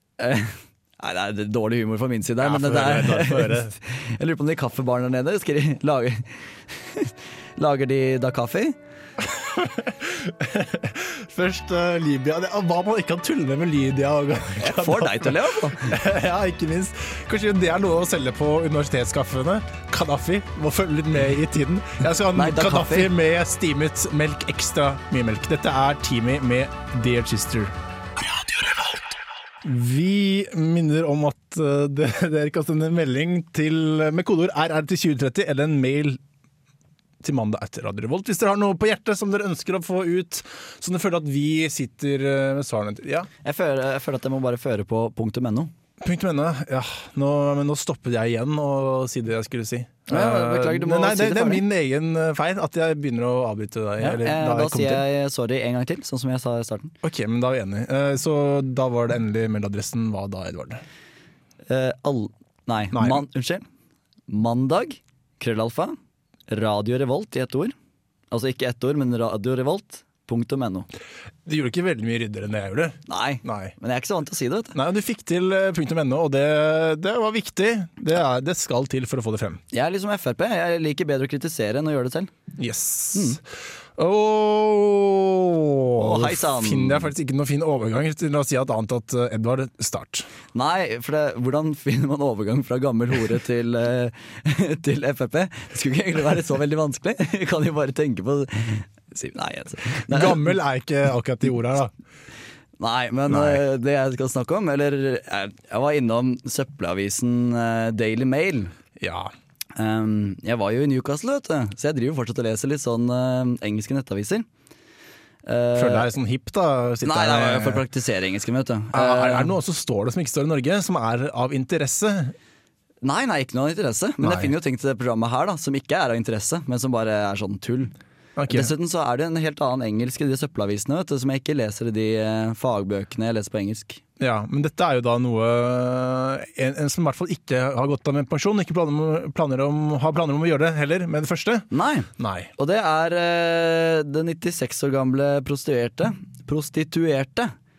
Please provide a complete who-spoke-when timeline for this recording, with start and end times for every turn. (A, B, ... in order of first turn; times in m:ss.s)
0:00.2-0:08.8 A
0:02.4-0:03.8 B
0:09.2-0:27.7 B
0:14.6-0:15.9 A
0:22.4-0:23.1 A
0:29.6-0:36.2 B
0:37.2-0:43.3 B
0:43.4-0:45.7 A
0:46.0-0:55.0 B
0:50.1-0:51.6 A
0:54.0-0:56.9 A
0:57.0-1:00.8 B
1:01.7-1:03.6 A
1:02.9-1:03.2 B
1:04.3-1:06.0 A
1:06.5-1:07.8 A
1:08.3-1:10.9 A
1:11.5-1:13.7 B
1:13.1-1:14.8 A
1:14.7-1:19.6 B
1:19.7-1:22.3 A
1:22.6-1:23.4 B
1:23.1-1:23.4 A
1:24.0-1:30.3 B
1:26.0-1:27.1 A
1:30.5-1:40.5 A
1:40.1-1:41.9 B
1:42.8-1:48.7 A
1:43.3-1:43.6 B
1:49.0-1:49.3 B
1:49.8-1:54.5 A
1:55.4-1:56.1 A
1:55.8-1:57.8 B
1:57.0-1:59.5 A
1:58.9-2:02.4 B
2:03.0-2:07.9 A
2:04.2-2:04.5 B
2:08.4-2:08.7 B
2:08.5-2:14.0 A
2:14.2-2:21.7 B
2:21.7-2:27.5 A
2:22.2-2:22.5 B